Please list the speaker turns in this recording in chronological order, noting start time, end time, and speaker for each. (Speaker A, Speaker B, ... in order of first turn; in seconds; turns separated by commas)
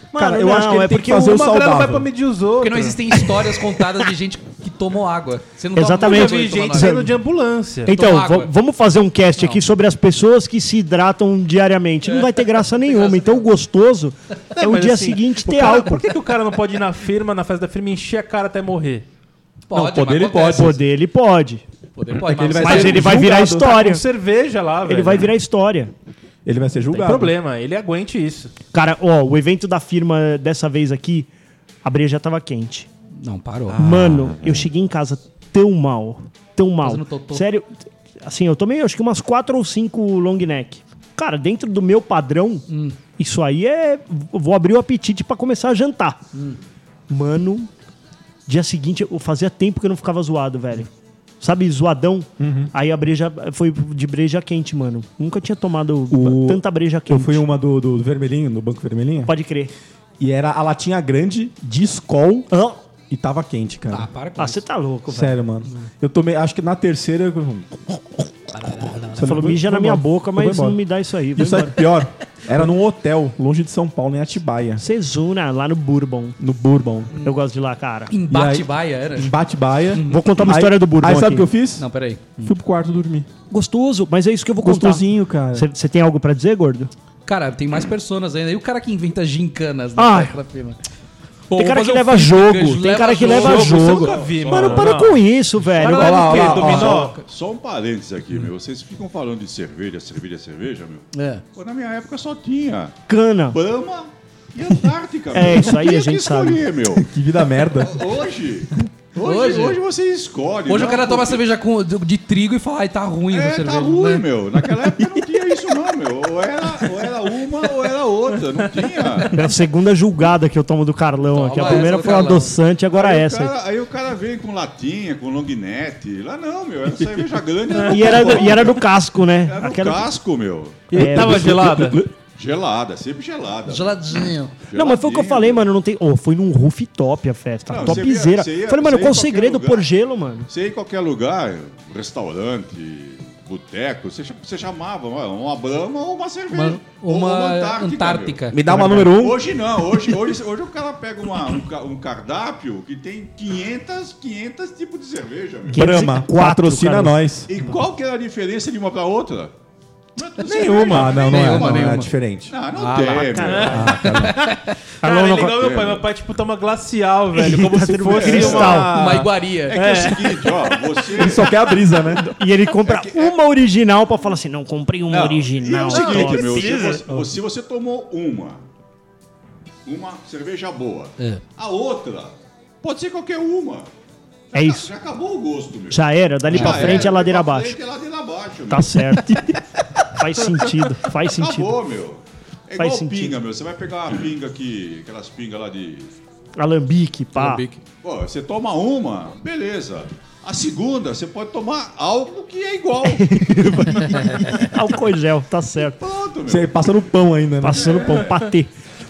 Speaker A: 0.1-1.6, Speaker B: 0.1-2.1, Speaker C: 1.4-3.6, Speaker D: 2.6-7.0, Speaker A: 5.8-7.1, Speaker C: 6.0-7.9, Speaker A: 7.8-16.1, Speaker D: 7.9-8.5, Speaker D: 12.0-13.5, Speaker C: 14.6-19.1, Speaker D: 19.7-20.8, Speaker B: 19.7-20.8, Speaker A: 20.5-21.6, Speaker D: 21.9-23.1, Speaker B: 22.2-23.7, Speaker A: 22.6-24.0, Speaker C: 22.7-25.4, Speaker A: 24.9-25.9, Speaker B: 26.4-27.3, Speaker C: 27.0-28.5, Speaker A: 28.7-31.3, Speaker A: 31.8-32.9, Speaker D: 33.2-33.8, Speaker B: 33.7-34.7, Speaker A: 33.8-37.7, Speaker D: 36.8-37.4, Speaker A: 38.2-42.7, Speaker D: 42.7-43.0, Speaker A: 43.2-46.2, Speaker D: 46.3-46.6, Speaker A: 47.1-47.7, Speaker A: 48.5-57.4, Speaker B: 52.4-52.7, Speaker B: 56.1-59.3, Speaker A: 59.3-59.7, Speaker B: 60.2-62.5, Speaker A: 62.5-62.8, Speaker B: 63.1-64.1, Speaker D: 63.9-64.6, Speaker A: 64.4-65.4, Speaker B: 65.1-68.0, Speaker D: 68.5-69.4, Speaker B: 68.6-70.8, Speaker A: 69.2-71.8, Speaker B: 71.3-74.8, Speaker A: 74.8-76.4, Speaker B: 76.4-77.1, Speaker A: 77.2-78.1, Speaker D: 78.1-79.4, Speaker B: 78.3-81.9, Speaker D: 79.9-80.3, Speaker A: 80.1-81.5, Speaker D: 81.8-82.5, Speaker B: 82.4-83.3, Speaker A: 83.5-86.9, Speaker B: 84.6-85.7, Speaker D: 87.3-90.8, Speaker A: 90.0-90.3, Speaker D: 91.5-94.0, Speaker A: 91.5-96.5, Speaker C: 93.2-97.2, Speaker E: 94.1-95.0, Speaker B: 95.9-97.2, Speaker D: 96.1-97.2, Speaker E: 96.7-103.0, Speaker D: 101.1-101.4, Speaker A: 103.1-103.6, Speaker E: 103.5-107.0, Speaker A: 105.3-106.6, Speaker B: 106.9-108.0, Speaker E: 107.8-111.4, Speaker D: 109.2-109.8, Speaker D: 110.7-114.3, Speaker E: 113.3-119.5, Speaker A: 119.3-123.5, Speaker D: 121.3-122.6, Speaker E: 121.6-122.3, Speaker E: 122.9-128.9, Speaker C: 127.8-128.4, Speaker A: 127.9-130.1, Speaker E: 129.4-131.0, Speaker C: 130.9-132.1, Speaker B: 130.9-132.1, Speaker A: 130.9-131.5, Speaker E: 132.3-135.7, Speaker D: 133.7-134.6, Speaker A: 134.7-140.5, Speaker E: 137.7-139.9, Speaker E: 140.5-156.0, Speaker D: 146.5-148.7, Speaker B: 148.5-149.4, Speaker A: 155.7-157.2, Speaker B: 155.7-157.5, Speaker E: 157.5-159.5, Speaker E: 160.2-164.0, Speaker C: 160.5-161.2, Speaker B: 160.5-162.6, Speaker D: 161.2-162.1, Speaker C: 162.7-169.0, Speaker A: 163.0-163.7, Speaker B: 163.6-164.4, Speaker D: 164.0-164.8, Speaker A: 165.0-165.6, Speaker E: 165.4-166.1, Speaker A: 167.3-168.9, Speaker E: 168.1-168.8, Speaker B: 168.2-169.3, Speaker D: 168.9-170.1, Speaker E: 169.7-171.8, Speaker C: 169.7-170.7, Speaker B: 171.1-172.2, Speaker A: 172.2-177.1, Speaker E: 172.8-173.4, Speaker E: 175.1-178.7, Speaker C: 175.9-177.1, Speaker E: 179.8-183.9, Speaker A: 184.5-184.9, Speaker E: 184.5-189.2, Speaker A: 185.9-187.8, Speaker D: 186.7-187.0, Speaker A: 188.7-191.8, Speaker E: 191.2-196.1, Speaker A: 192.8-193.4, Speaker A: 196.6-197.6, Speaker D: 197.3-197.8, Speaker E: 198.0-204.7, Speaker A: 203.1-206.0, Speaker E: 205.9-206.9, Speaker B: 206.5-208.0, Speaker A: 207.6-208.7, Speaker E: 208.0-208.3